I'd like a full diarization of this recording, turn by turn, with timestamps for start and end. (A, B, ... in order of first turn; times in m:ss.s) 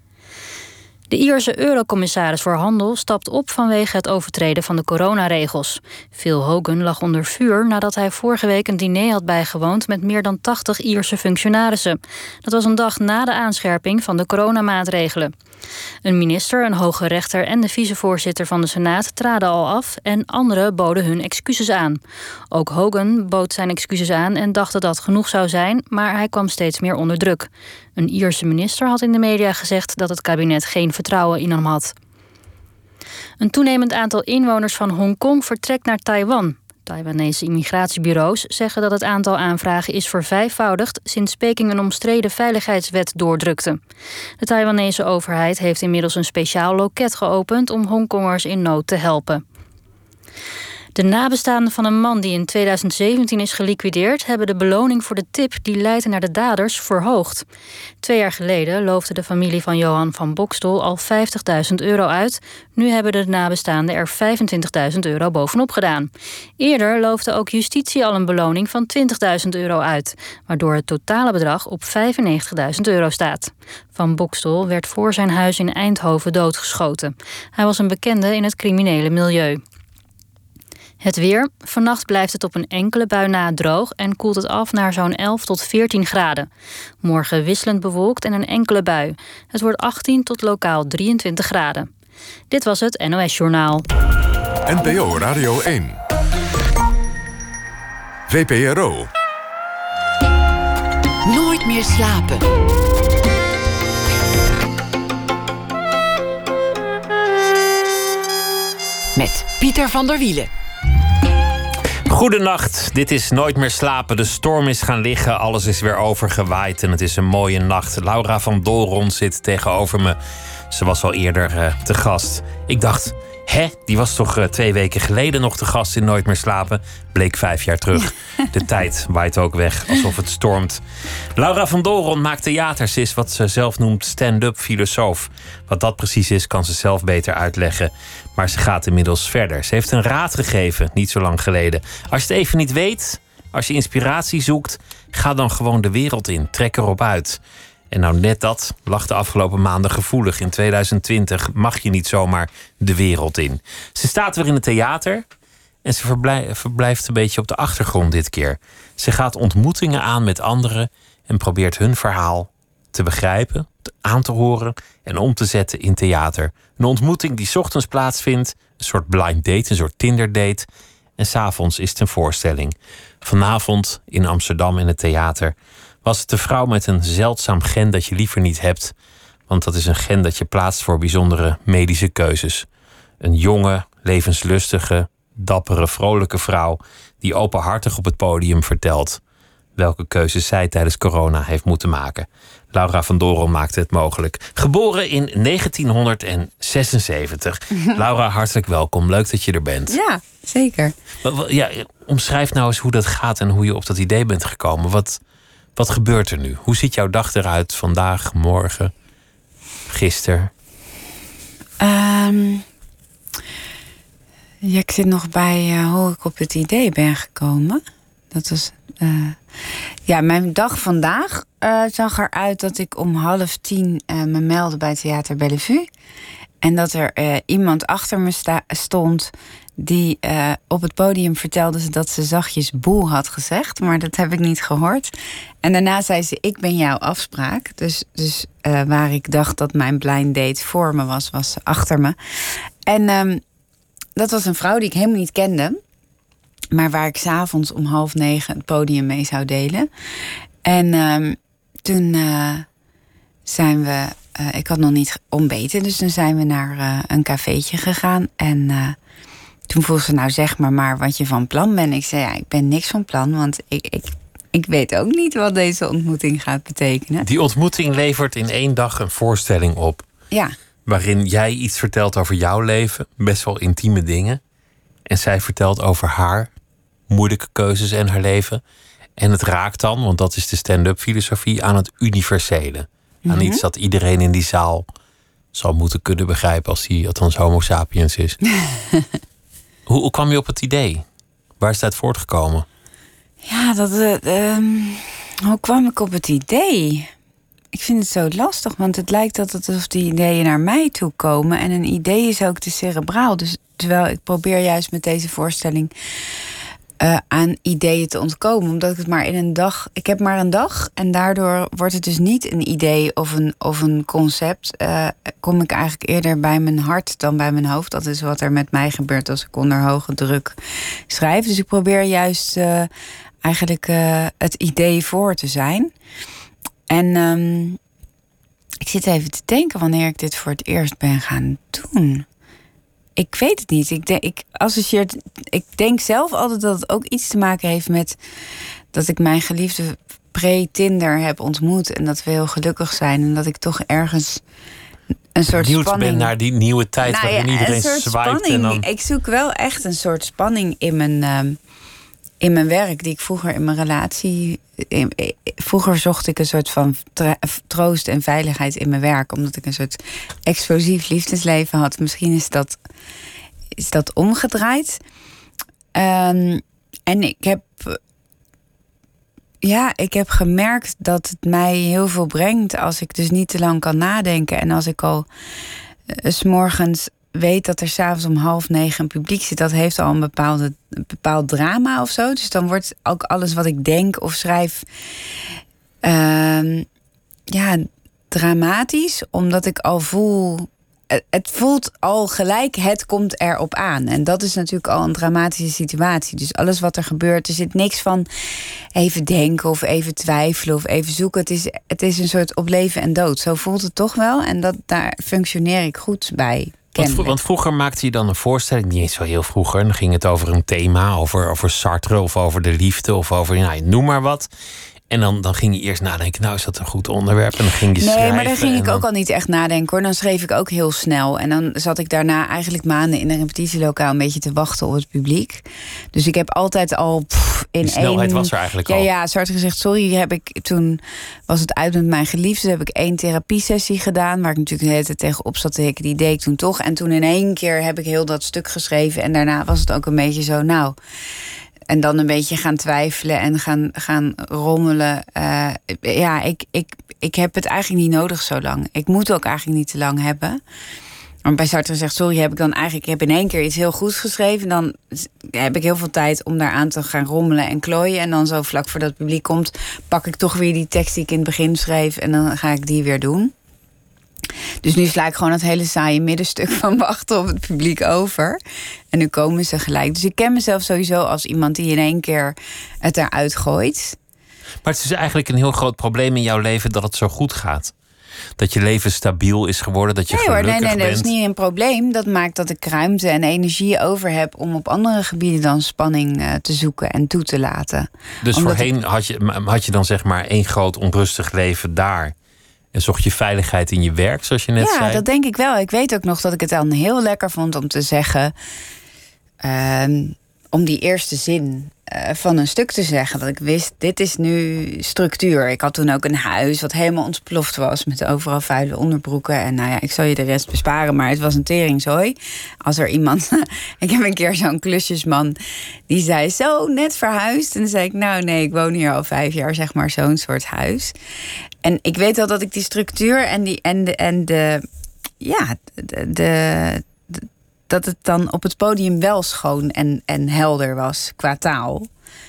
0:01.1-0:15.3 A
0:16.0-0:22.0 A
0:22.5-0:31.9 A
0:33.4-0:43.8 A
0:44.4-0:49.4 A
0:51.0-0:57.4 A
0:58.0-1:19.6 A
1:21.0-1:26.5 A
1:27.0-1:31.9 A
1:32.5-1:33.9 A
1:34.7-1:36.0 B
1:38.3-1:39.1 B
1:41.2-1:42.4 C
1:49.2-1:50.5 C
1:52.1-2:00.2 D
2:00.7-2:10.8 D
2:11.4-2:27.4 D
2:27.9-2:35.2 D
2:35.8-2:50.7 D
2:51.2-2:58.9 D
2:59.5-3:02.7 D
3:03.2-3:09.2 D
3:09.8-3:20.0 D
3:19.9-3:20.9 E
3:21.2-3:25.2 D
3:25.8-3:28.9 D
3:29.9-3:30.5 D
3:31.8-3:32.6 E
3:34.6-3:39.4 E
3:40.1-3:45.9 E
3:46.6-4:03.4 E
4:04.2-4:05.8 E
4:06.7-4:09.9 E
4:10.6-4:12.7 E
4:13.4-4:19.0 E
4:19.7-4:27.3 E
4:27.2-4:30.0 D
4:30.9-4:34.4 D
4:35.1-4:36.5 D
4:37.1-4:38.6 D
4:39.2-4:44.9 D
4:43.2-4:43.6 E
4:45.5-4:48.4 D
4:48.6-4:49.1 E
4:49.9-4:51.0 D
4:51.6-4:52.7 D
4:53.4-4:57.1 E
4:57.7-5:05.9 E
5:07.0-5:20.6 E
5:21.1-5:22.9 E
5:23.4-5:25.9 E
5:26.9-5:27.8 E
5:28.8-5:32.2 E
5:33.2-5:38.2 E
5:38.9-5:44.4 E
5:45.4-5:46.3 E
5:45.5-5:48.9 D
5:47.0-5:51.6 E
5:52.4-6:02.8 E
6:03.8-6:05.0 E
6:05.9-6:08.0 E
6:09.6-6:15.2 E
6:16.1-6:24.8 E
6:26.0-6:26.9 E
6:27.5-6:38.3 E
6:38.9-6:47.4 E
6:47.0-6:54.5 D
6:55.1-6:59.0 D
6:58.0-7:21.0 E
7:07.8-7:09.1 D
7:21.9-7:30.6 E
7:31.4-7:43.5 E
7:44.8-7:48.6 E
7:49.1-7:54.2 E
7:54.8-7:57.9 D
7:58.6-8:01.3 D
8:00.3-8:08.9 E
8:08.4-8:12.3 D
8:12.9-8:15.2 D
8:14.8-8:18.5 E
8:19.6-8:35.6 E
8:36.1-8:41.1 E
8:41.8-8:44.8 E
8:45.4-8:52.1 E